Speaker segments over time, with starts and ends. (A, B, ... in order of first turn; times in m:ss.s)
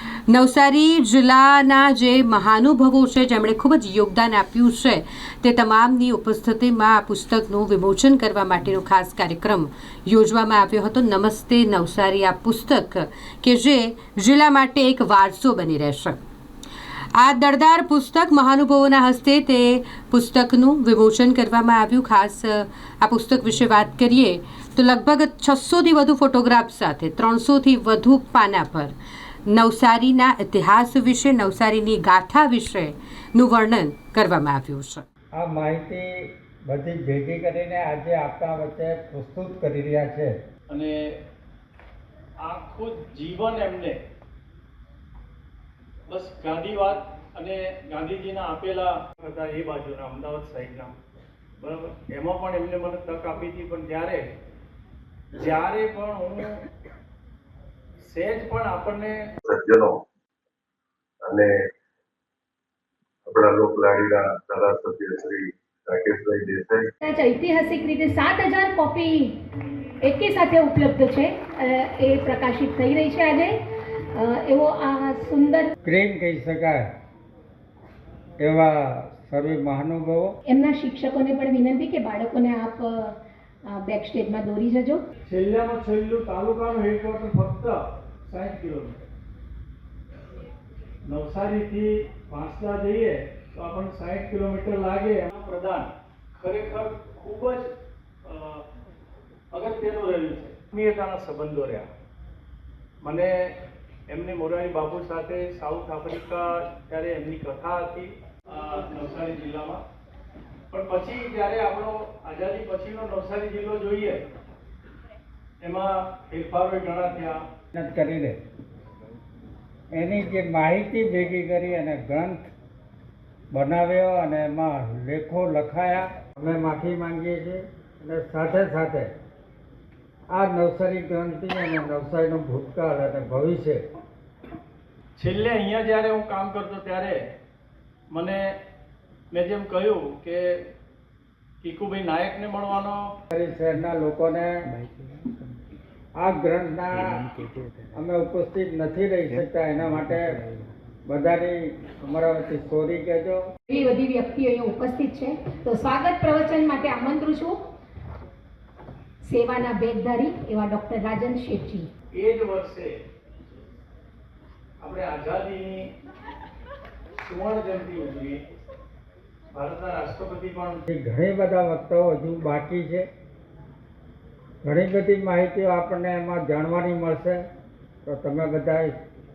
0:00.3-0:16.2 A
0:17.2-0:28.9 A
0:29.5-0:35.0 A
0:35.4-0:40.3 B
0:40.7-0:41.0 C
0:42.4-0:44.0 C
0:46.1-0:50.9 C
0:51.6-0:54.2 C
0:55.4-0:56.6 C
0:58.0-0:59.2 C
0:59.4-1:00.0 D
1:01.2-1:01.5 D
1:03.2-1:06.9 D
1:07.0-1:09.4 E
1:10.0-1:13.6 E
1:14.1-1:15.7 E
1:15.8-1:16.9 B
1:18.4-1:20.3 B
1:20.5-1:23.2 E
1:23.7-1:25.0 E
1:25.3-1:29.0 C
1:31.1-1:37.7 C
1:38.2-1:38.6 C
1:39.5-1:41.9 C
1:43.0-1:43.6 C
1:44.1-1:49.8 C
1:50.7-1:54.2 C
1:55.6-1:57.4 C
1:57.7-1:58.4 B
1:59.9-2:02.5 B
2:03.5-2:09.1 B
2:10.3-2:13.8 B
2:15.2-2:17.2 C
2:18.1-2:18.4 C
2:19.3-2:20.5 C
2:21.6-2:23.1 C
2:23.3-2:24.5 B
2:26.2-2:27.3 B
2:28.0-2:30.4 B
2:31.1-2:33.4 B
2:33.7-2:37.6 E
2:39.2-2:41.9 E
2:42.1-2:43.0 C
2:44.8-2:45.9 C
2:47.2-2:48.4 C
2:49.5-2:50.8 C
2:50.9-2:53.1 B
2:54.6-2:57.4 B
2:58.0-2:58.9 B